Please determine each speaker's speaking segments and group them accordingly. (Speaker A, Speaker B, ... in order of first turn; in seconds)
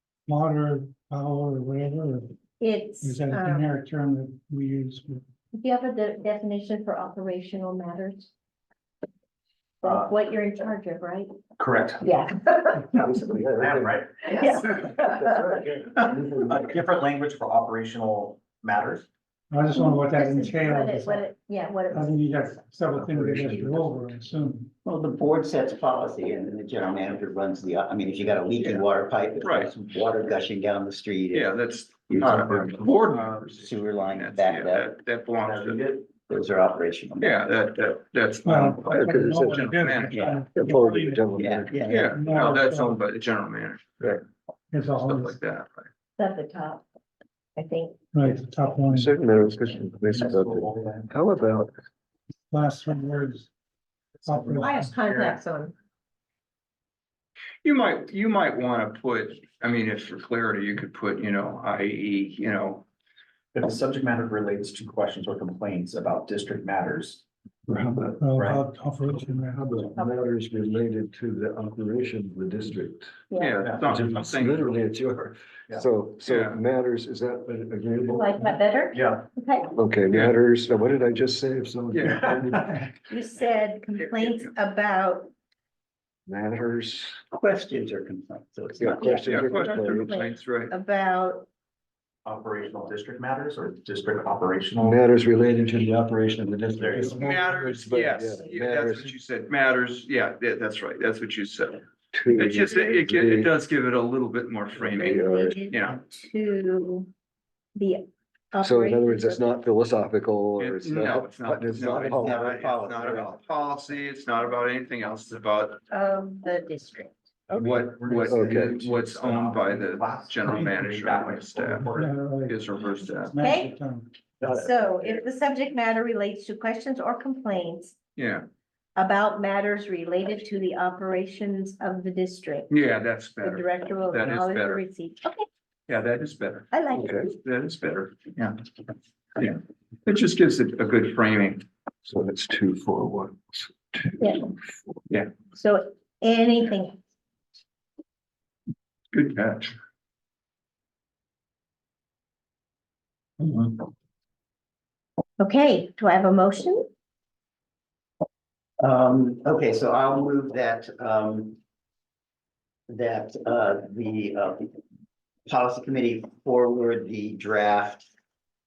Speaker A: 0.3-2.3, 3.0-5.2, 19.5-21.3, 21.9-24.7, 38.4-43.0, 44.7-45.4, 48.1-49.1, 52.5-53.5, 54.2-55.0, 68.2-69.6, 121.9-122.6, 123.3-124.2
Speaker B: 2.6-3.7, 5.5-8.3, 9.8-11.3, 12.0-12.9, 14.3-15.6, 19.7-22.6, 46.2-46.8, 47.6-48.0, 54.6-55.7, 73.3-73.6, 78.1-79.7, 83.1-85.3, 89.0-91.5, 105.0-107.1, 107.8-109.6, 115.9-117.2, 123.4-123.7, 124.4-128.0, 129.0-132.7, 133.4-135.5, 136.7-137.2, 145.5-147.0, 155.4-156.9
Speaker C: 9.8-10.1, 11.6-12.1, 13.0-14.6, 16.5-19.1, 32.5-33.6, 35.4-36.1, 50.0-51.1, 54.3-54.6, 63.5-67.2, 68.1-68.7, 73.6-73.9, 78.9-79.2, 82.3-82.8, 92.2-95.0, 96.7-97.4, 117.5-122.2
Speaker D: 12.9-14.0, 14.7-16.7, 22.9-24.1, 38.9-39.8, 40.5-42.0, 48.9-51.7, 67.7-68.1, 69.1-73.1, 73.8-78.4, 79.8-82.8, 86.3-87.2, 88.8-90.1, 94.8-99.1, 102.1-103.5, 104.8-105.6, 108.6-112.5, 118.2-118.9, 136.9-137.3, 142.0-145.0
Speaker E: 24.8-34.9, 36.1-37.4, 40.1-40.5, 41.4-42.1, 87.3-89.4, 112.1-113.4, 158.8-161.6, 162.9-164.7, 165.5-168.1
Speaker F: 28.6-28.9, 29.4-29.7, 31.3-35.8, 37.2-40.4, 41.9-44.2, 45.0-45.9, 57.6-62.8, 73.4-74.6, 76.2-76.6, 81.9-82.2, 89.2-90.7, 97.1-106.0, 110.6-115.8, 117.5-121.9, 122.5-123.3, 128.2-128.5, 132.7-134.8, 135.9-136.7, 137.2-138.5, 139.3-141.7, 149.1-149.7